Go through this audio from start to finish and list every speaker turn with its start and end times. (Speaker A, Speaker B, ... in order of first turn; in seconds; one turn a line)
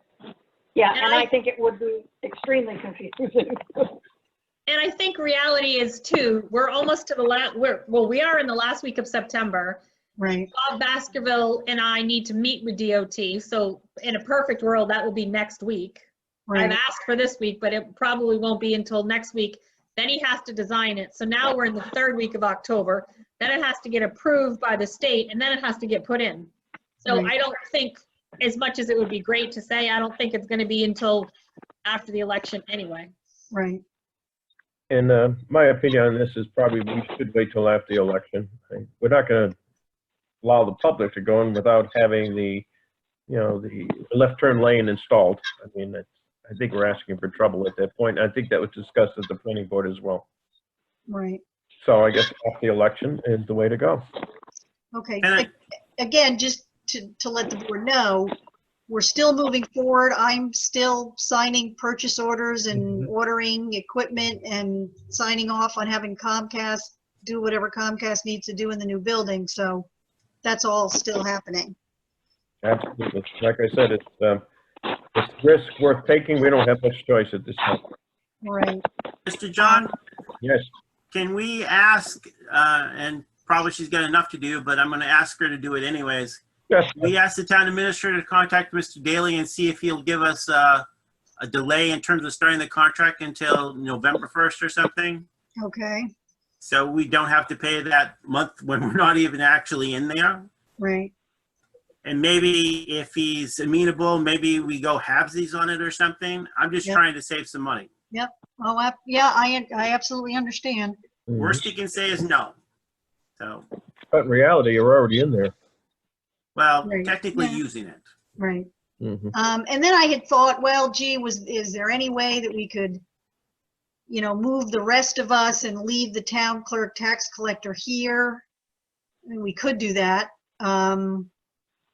Speaker A: 0.8-4.0
Speaker B: 0.9-1.3
Speaker B: 4.7-9.8
Speaker C: 10.2-10.5
Speaker B: 10.5-16.0
Speaker C: 16.5-16.8
Speaker B: 16.5-26.5
Speaker B: 27.0-31.3
Speaker C: 27.1-27.3
Speaker B: 31.9-33.1
Speaker C: 33.5-33.8
Speaker D: 34.9-39.5
Speaker D: 40.4-42.7
Speaker D: 43.3-50.2
Speaker C: 51.1-51.4
Speaker D: 51.8-54.1
Speaker C: 54.9-58.3
Speaker E: 55.2-55.5
Speaker C: 58.9-69.9
Speaker C: 70.4-71.8
Speaker D: 72.6-74.4
Speaker D: 75.2-77.8
Speaker C: 78.4-78.8
Speaker E: 79.3-79.9
Speaker C: 79.6-79.9
Speaker D: 80.4-80.7
Speaker E: 81.1-86.4
Speaker D: 86.7-87.1
Speaker E: 87.0-90.8
Speaker E: 91.4-95.3
Speaker C: 95.6-96.1
Speaker E: 96.6-100.5
Speaker C: 100.8-101.1
Speaker E: 102.0-107.9
Speaker C: 108.1-111.0
Speaker D: 111.3-111.6
Speaker E: 111.4-112.6
Speaker E: 113.4-113.7
Speaker D: 114.1-115.5
Speaker E: 116.5-118.0
Speaker C: 116.8-117.6
Speaker C: 118.4-118.7
Speaker D: 119.0-119.3
Speaker C: 119.3-123.0
Speaker C: 124.1-128.4
Speaker C: 129.3-131.3